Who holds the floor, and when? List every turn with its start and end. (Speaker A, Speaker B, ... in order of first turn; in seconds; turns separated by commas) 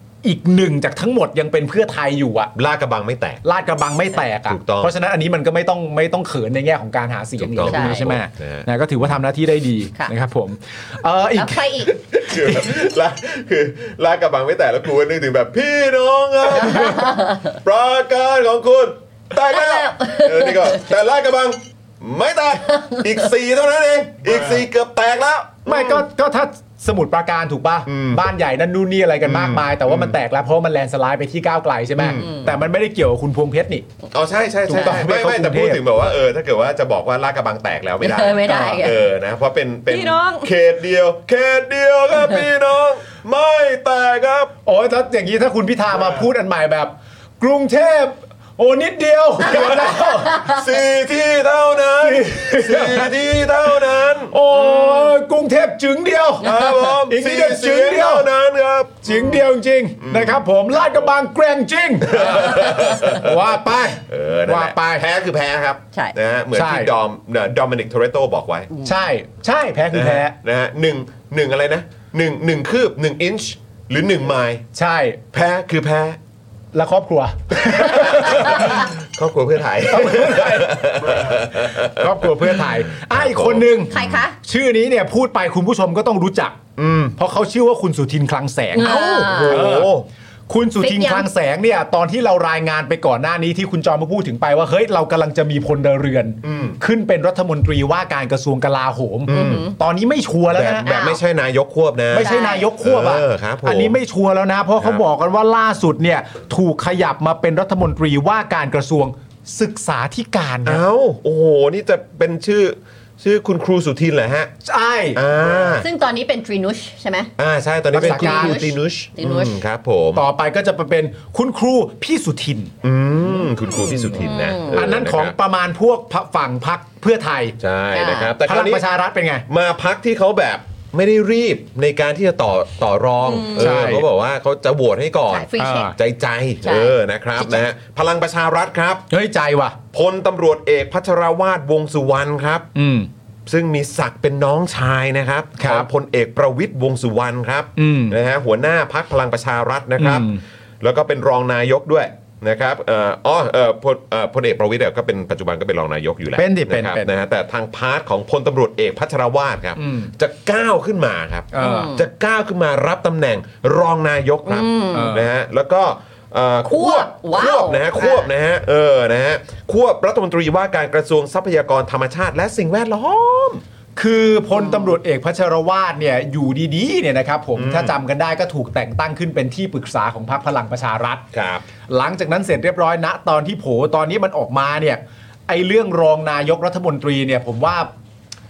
Speaker A: 0.2-2.5, Speaker B: 2.5-3.4, Speaker A: 3.4-11.6, Speaker B: 4.5-4.9, Speaker B: 7.4-8.7, Speaker C: 7.7-8.1, Speaker C: 11.4-11.9, Speaker B: 11.9-26.1, Speaker C: 16.6-17.5, Speaker C: 19.5-20.9, Speaker A: 25.7-33.9, Speaker B: 27.9-28.2, Speaker B: 29.2-30.2, Speaker B: 32.0-32.6, Speaker C: 32.2-32.5, Speaker B: 34.1-44.5, Speaker A: 34.7-35.8, Speaker C: 34.7-35.0, Speaker C: 38.0-39.0, Speaker A: 38.5-38.8, Speaker C: 39.9-40.5, Speaker A: 44.6-50.5, Speaker B: 45.9-46.3, Speaker B: 49.4-55.2, Speaker A: 52.0-58.3, Speaker B: 56.4-59.4, Speaker A: 59.0-65.0, Speaker C: 59.1-59.4, Speaker B: 60.0-61.1, Speaker B: 62.0-68.7, Speaker A: 66.5-66.9, Speaker C: 68.7-69.0, Speaker A: 68.8-70.3, Speaker B: 69.9-74.6, Speaker A: 74.7-75.2, Speaker B: 75.3-76.2, Speaker A: 76.7-78.9, Speaker B: 77.6-84.2, Speaker A: 79.9-86.6, Speaker C: 83.9-84.3, Speaker B: 86.8-87.2, Speaker A: 87.2-89.9, Speaker C: 88.7-89.7, Speaker B: 88.8-90.0, Speaker A: 90.5-101.0, Speaker C: 90.8-91.3, Speaker B: 96.4-96.8, Speaker B: 99.3-99.7, Speaker C: 99.3-99.8, Speaker B: 100.5-104.0, Speaker C: 100.9-101.2, Speaker A: 102.1-110.8, Speaker C: 102.2-102.7, Speaker B: 104.8-105.0, Speaker B: 110.7-114.5, Speaker A: 114.7-115.2, Speaker B: 115.2-115.9, Speaker C: 115.8-117.3, Speaker B: 117.4-120.2, Speaker A: 117.9-118.6, Speaker C: 118.0-119.5, Speaker A: 120.2-122.7, Speaker B: 122.8-125.4, Speaker C: 124.1-124.8, Speaker A: 124.7-127.6, Speaker B: 127.6-128.8, Speaker C: 127.9-128.3, Speaker A: 128.4-129.4, Speaker B: 129.5-139.1, Speaker C: 133.2-133.8, Speaker A: 133.6-134.1, Speaker C: 135.3-135.9, Speaker A: 135.6-136.0, Speaker C: 136.6-137.6, Speaker A: 139.1-139.8, Speaker B: 139.9-142.7, Speaker A: 142.8-143.1, Speaker B: 143.5-173.6, Speaker A: 145.6-145.9, Speaker A: 147.8-148.2, Speaker A: 150.0-150.4, Speaker A: 156.4-157.1, Speaker A: 159.8-160.1, Speaker A: 161.5-161.9, Speaker C: 161.6-162.1, Speaker C: 164.5-165.2, Speaker A: 164.9-165.3, Speaker C: 166.7-168.3, Speaker A: 174.0-181.2, Speaker C: 174.5-174.9, Speaker B: 177.6-178.0, Speaker B: 181.3-181.7, Speaker A: 181.9-187.9